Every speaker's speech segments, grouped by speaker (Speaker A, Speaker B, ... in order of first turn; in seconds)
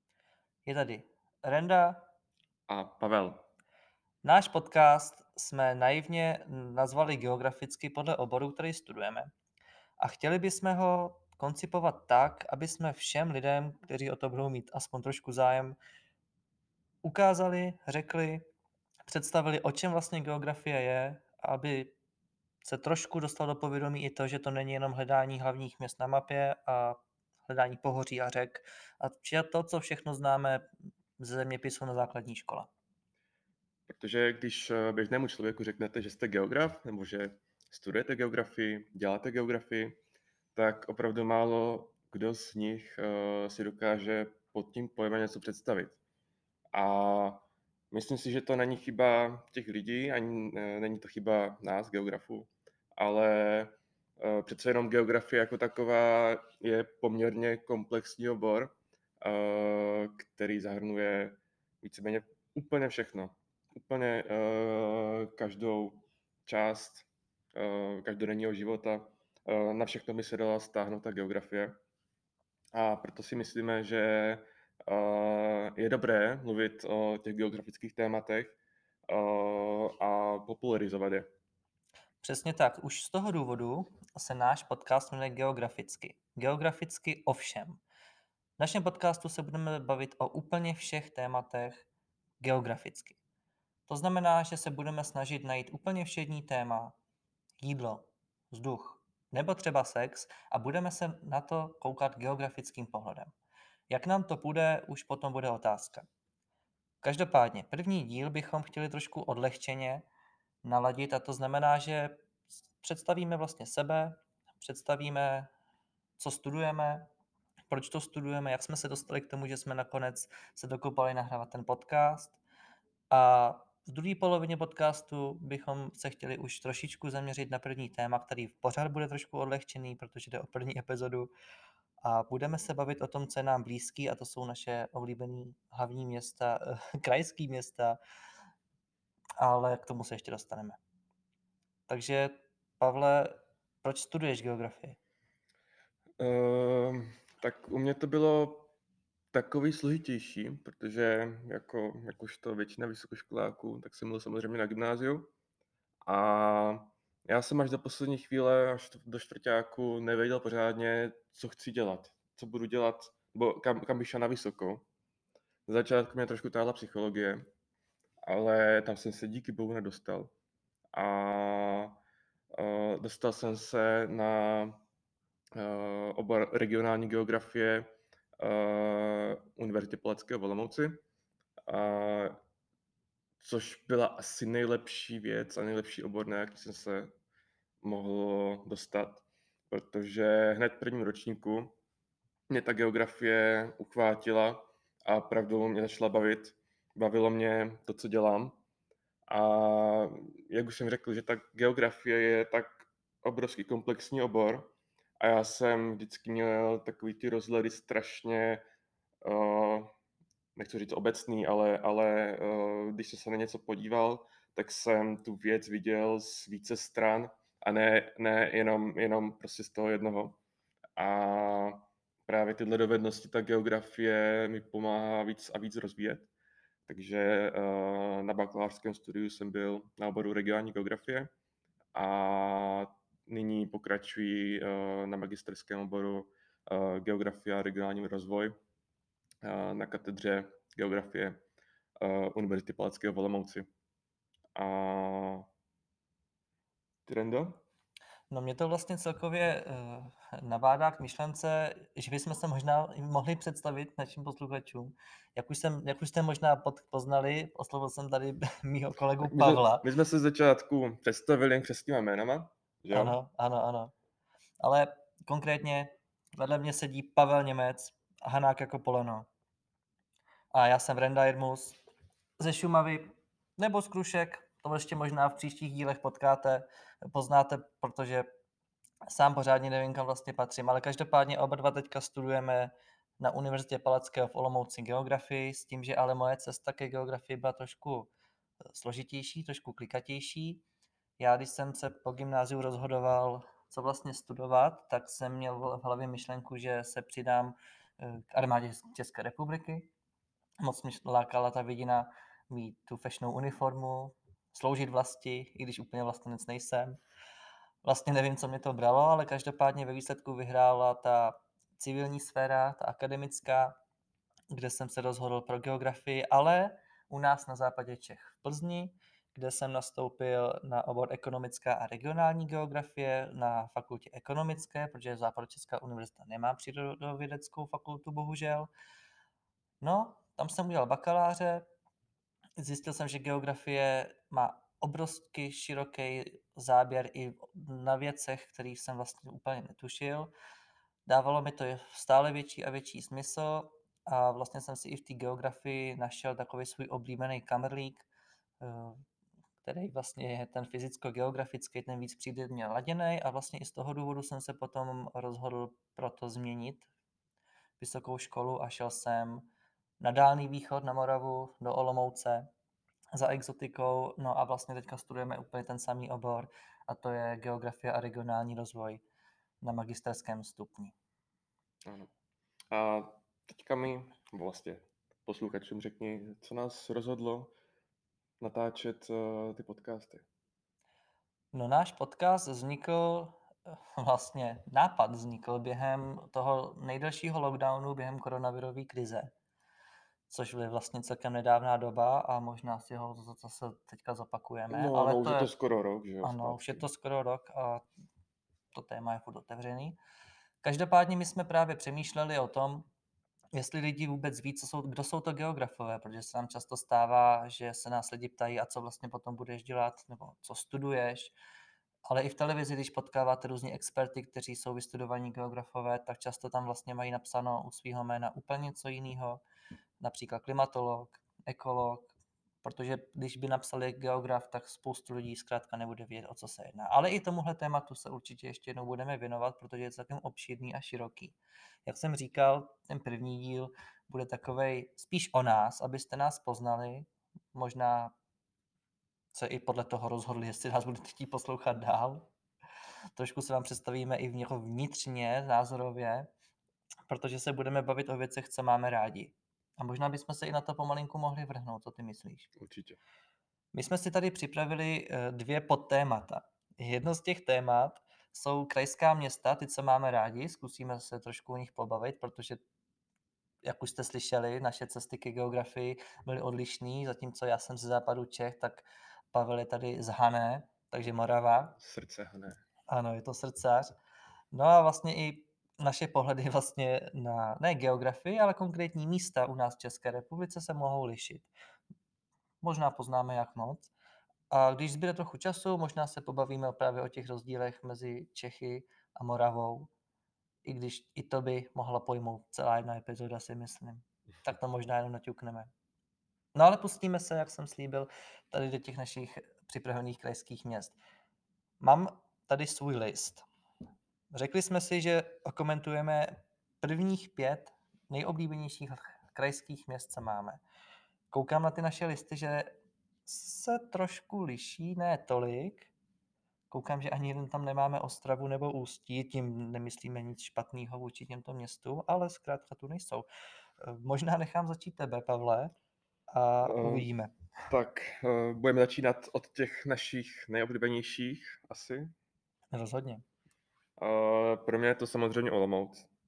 Speaker A: 0.6-2.1, 4.2-9.3, 10.0-15.8, 17.0-18.4, 19.1-21.9, 22.6-30.6, 31.2-32.7, 82.2-87.8, 88.6-91.9, 92.4-93.2, 93.9-97.0, 97.6-103.3, 103.9-106.1, 107.0-110.1, 110.6-112.2, 112.8-115.5, 116.2-117.1, 117.7-122.4, 123.1-131.3, 132.0-138.0, 139.4-140.8, 141.9-145.0, 248.3-259.9, 262.9-263.9, 264.6-269.3, 270.5-271.8, 272.4-273.1, 273.6-278.3, 279.1-288.1, 288.7-290.6, 291.2-299.9, 300.6-307.0, 307.8-313.8, 314.5-328.7, 329.8-331.6, 332.6-340.3, 341.1-348.1, 348.6-349.0, 349.6-356.9, 357.8-362.5, 363.1-369.0, 369.6-370.9, 381.5-389.3, 390.3-395.5, 396.2-397.8, 398.7-400.0, 400.6-402.9, 403.6-411.3, 412.1-419.4, 420.0-438.1, 439.3-442.3, 443.2-446.3, 447.1-452.5, 453.7-462.6, 463.6-471.8, 472.9-473.9, 474.5-481.5, 482.6-483.9, 484.5-489.9, 490.6-495.7, 496.5-500.9, 501.8-503.4, 504.3-510.6, 511.3-512.8, 513.2-515.9, 516.7-523.3, 523.8-525.7, 526.3-527.3, 532.7-533.2
Speaker B: 2.7-3.4, 33.9-40.0, 40.5-46.0, 46.7-71.8, 72.7-78.6, 79.1-81.3, 146.2-148.7, 149.3-155.3, 156.0-164.8, 165.7-167.5, 168.2-170.3, 170.9-172.0, 172.5-174.8, 175.5-181.0, 181.7-182.4, 183.4-187.1, 187.8-191.8, 192.5-198.6, 199.3-208.6, 209.2-209.9, 210.6-220.4, 221.0-226.3, 226.9-231.3, 231.9-238.5, 239.4-241.4, 242.0-243.7, 244.5-245.5, 247.1-247.6, 259.2-263.2, 371.8-372.1, 372.7-377.5, 378.4-380.2, 394.7-396.9, 452.6-453.0, 471.8-472.6, 526.6-527.1, 527.7-532.1, 534.0-536.1